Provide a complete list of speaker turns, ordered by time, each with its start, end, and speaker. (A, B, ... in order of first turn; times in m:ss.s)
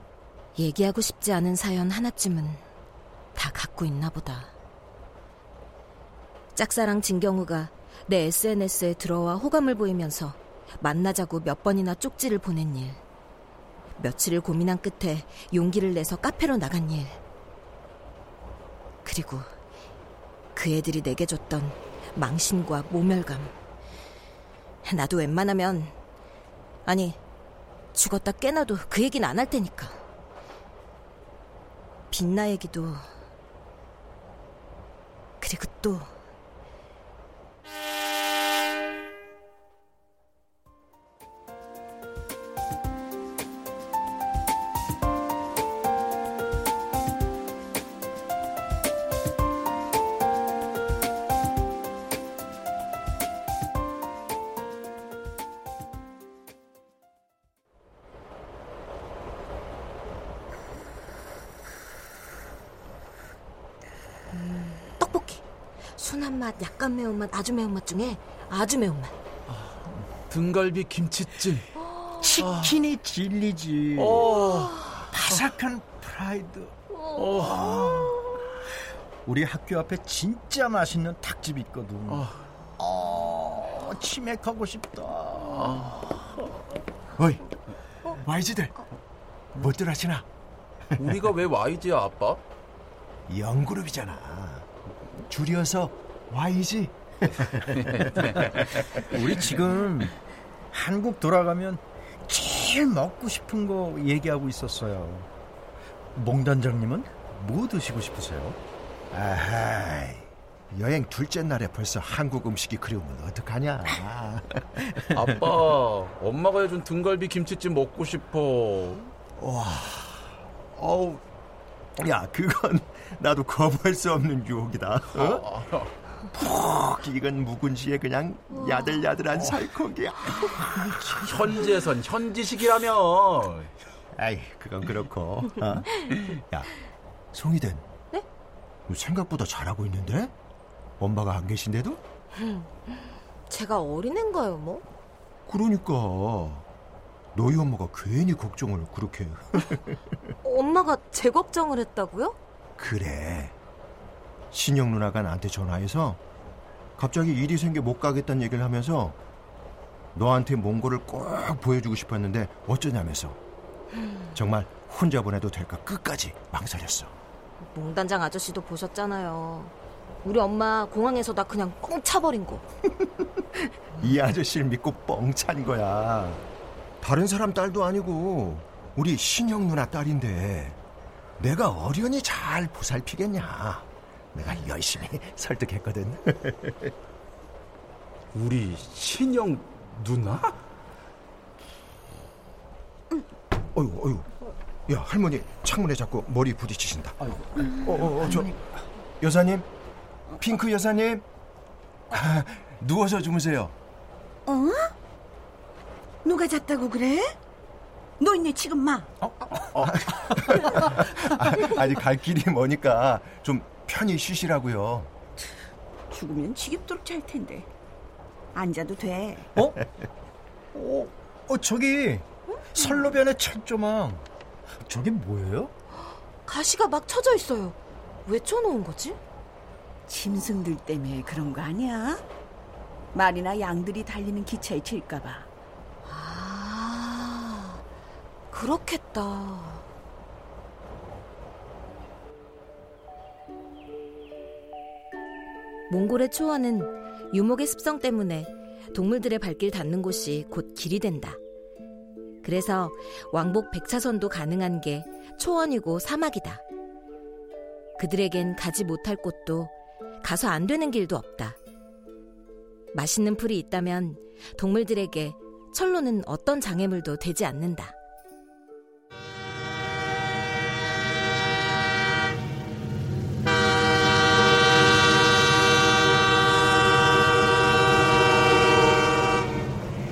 0:00.6-0:02.6 A
0:03.3-0:04.5 A
0:06.5-0:13.0 A
0:14.0-0:17.2 A
0:19.0-0:19.5 A
0:20.5-0:23.5 A
0:24.8-0:25.9 A
0:26.8-0:27.2 A
0:27.9-0:30.0 A
0:32.1-0:33.0 A
0:35.4-0:36.1 A
1:04.4-1:05.4 A
1:06.0-1:09.1 A
1:09.5-1:11.7 B
1:12.2-1:14.4 C
1:12.4-1:12.8 B
1:14.0-1:15.4 B
1:15.1-1:16.8 C
1:16.9-1:18.1 A
1:17.2-1:18.2 B
1:19.2-1:26.3 C
1:22.1-1:22.4 B
1:25.5-1:26.0 B
1:27.2-1:27.5 D
1:28.0-1:28.8 D
1:29.6-1:30.2 D
1:31.0-1:32.4 B
1:33.3-1:34.6 D
1:35.3-1:37.6 D
1:37.7-1:39.0 B
1:39.0-1:40.1 C
1:40.7-1:45.3 C
1:46.1-1:48.6 C
1:49.1-1:54.9 D
1:55.1-1:59.1 B
1:59.6-2:00.0 D
2:00.8-2:01.2 B
2:02.0-2:05.4 D
2:05.1-2:05.9 B
2:06.3-2:11.2 D
2:11.2-2:13.7 B
2:14.2-2:16.7 D
2:17.3-2:17.8 D
2:18.9-2:20.3 D
2:21.0-2:22.0 D
2:22.4-2:24.8 A
2:25.5-2:26.6 D
2:27.3-2:30.1 D
2:30.4-2:32.4 A
2:32.8-2:33.5 D
2:34.5-2:36.2 D
2:37.0-2:39.2 D
2:40.1-2:43.4 D
2:44.3-2:47.1 D
2:47.7-2:49.7 A
2:50.2-2:52.6 A
2:53.2-2:56.4 D
2:57.0-3:00.8 D
3:01.4-3:06.9 D
3:08.3-3:10.5 B
3:13.7-3:14.3 D
3:14.9-3:18.5 D
3:17.8-3:18.5 C
3:19.2-3:19.7 D
3:20.4-3:21.2 D
3:22.1-3:23.7 D
3:24.5-3:24.9 E
3:26.2-3:27.3 E
3:28.2-3:29.1 E
3:29.7-3:35.1 D
3:36.1-3:37.7 E
3:38.5-3:39.5 E
3:40.7-3:44.2 C
3:44.8-3:45.7 C
3:46.4-3:49.2 A
3:50.1-3:52.2 E
3:53.1-3:55.5 E
3:56.0-3:57.8 A
3:58.5-3:59.8 A
4:05.9-4:11.4 A
4:12.4-4:16.6 A
4:18.0-4:21.6 A
4:22.9-4:27.9 A